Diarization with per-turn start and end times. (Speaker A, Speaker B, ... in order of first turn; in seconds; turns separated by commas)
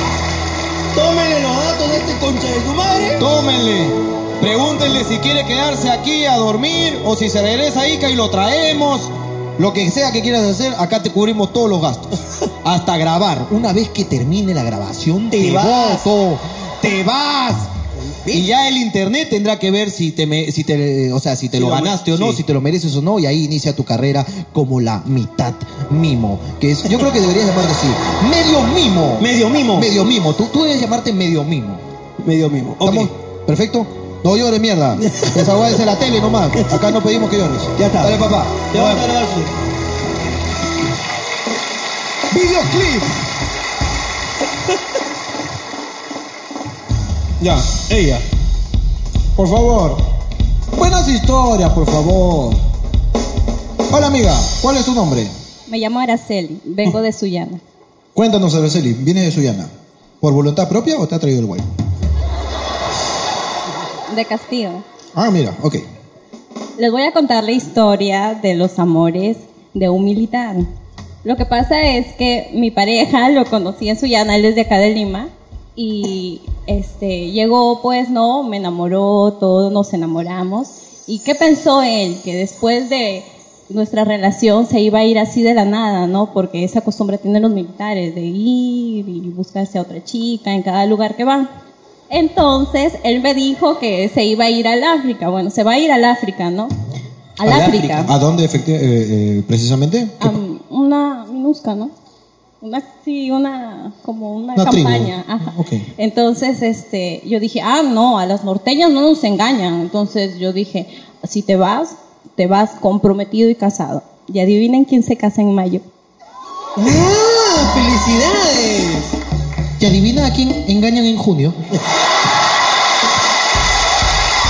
Speaker A: 0.9-3.3, Speaker B: 3.2-12.1, Speaker B: 12.6-17.7, Speaker A: 15.3-16.1, Speaker A: 18.2-18.5, Speaker B: 18.3-31.8, Speaker A: 21.6-22.4, Speaker A: 29.2-29.9, Speaker A: 32.2-33.1, Speaker B: 32.8-39.1, Speaker A: 35.0-35.8, Speaker A: 36.6-36.8, Speaker A: 37.8-39.5, Speaker B: 42.3-43.1, Speaker A: 47.4-48.2, Speaker B: 49.4-50.0, Speaker B: 50.8-52.6, Speaker B: 53.9-55.3, Speaker C: 55.7-57.6, Speaker B: 58.1-61.7, Speaker C: 64.1-64.8, Speaker B: 65.2-65.8, Speaker C: 66.8-70.7, Speaker C: 71.2-91.5, Speaker C: 92.1-96.7, Speaker C: 97.4-98.1, Speaker A: 97.4-98.1, Speaker B: 98.0-100.4, Speaker C: 100.2-101.9, Speaker C: 102.6-115.8, Speaker B: 104.5-105.9, Speaker A: 116.8-119.1, Speaker B: 119.8-121.6